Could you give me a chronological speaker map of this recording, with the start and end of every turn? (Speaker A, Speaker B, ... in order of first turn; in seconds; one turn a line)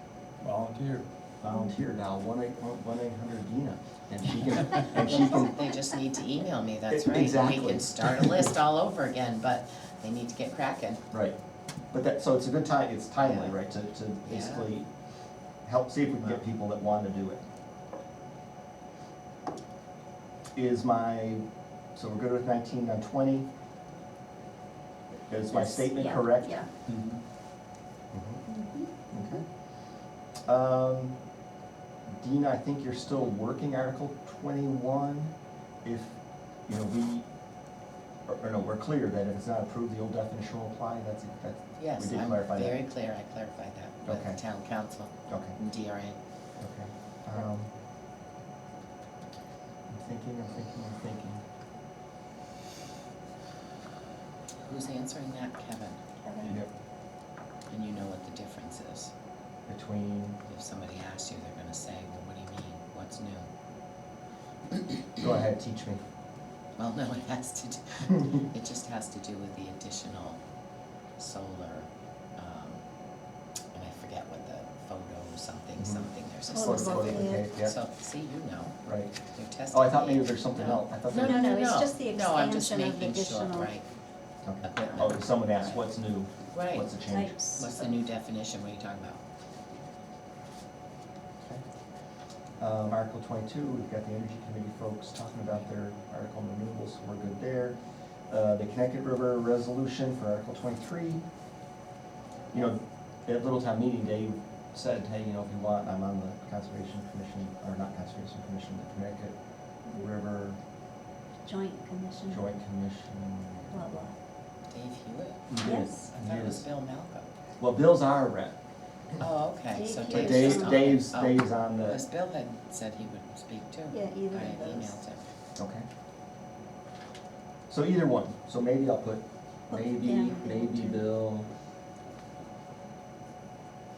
Speaker A: 0.4-5.6
Speaker B: 4.9-11.0
Speaker A: 6.9-8.5
Speaker A: 11.1-11.4
Speaker A: 11.9-14.9
Speaker B: 13.2-13.6
Speaker B: 14.2-14.7
Speaker A: 15.7-17.4
Speaker A: 20.6-21.4
Speaker A: 21.9-23.5
Speaker A: 25.3-27.0
Speaker C: 25.5-26.7
Speaker A: 28.1-28.4
Speaker C: 28.5-28.9
Speaker A: 29.1-29.4
Speaker A: 30.5-31.2
Speaker A: 32.2-35.3
Speaker A: 35.8-37.3
Speaker A: 38.3-42.8
Speaker B: 41.8-46.2
Speaker A: 44.1-44.4
Speaker A: 45.3-45.6
Speaker A: 46.6-47.7
Speaker A: 49.9-51.4
Speaker B: 54.6-56.6
Speaker C: 56.2-56.5
Speaker A: 56.4-56.7
Speaker B: 57.7-59.1
Speaker A: 59.7-60.4
Speaker B: 60.5-63.5
Speaker A: 65.2-66.0
Speaker B: 66.8-70.4
Speaker B: 71.2-72.8
Speaker B: 73.7-83.8
Speaker A: 75.8-77.8
Speaker C: 76.5-77.5
Speaker A: 78.8-79.2
Speaker A: 79.7-81.5
Speaker C: 81.1-83.7
Speaker A: 84.4-87.4
Speaker B: 84.6-85.8
Speaker B: 86.5-86.9
Speaker C: 87.1-88.0
Speaker B: 87.5-89.2
Speaker A: 92.6-97.8
Speaker A: 98.3-101.3
Speaker A: 102.5-109.4
Speaker A: 109.9-110.6
Speaker C: 111.5-112.5
Speaker A: 112.3-114.1
Speaker C: 113.7-114.2
Speaker B: 114.7-115.5
Speaker A: 115.5-116.6
Speaker C: 115.6-116.1
Speaker B: 116.1-117.3
Speaker A: 117.6-118.6
Speaker B: 119.2-125.3
Speaker C: 119.7-121.0
Speaker A: 120.1-122.0
Speaker C: 123.9-125.0
Speaker A: 125.6-125.9
Speaker A: 127.7-131.5
Speaker C: 129.7-131.1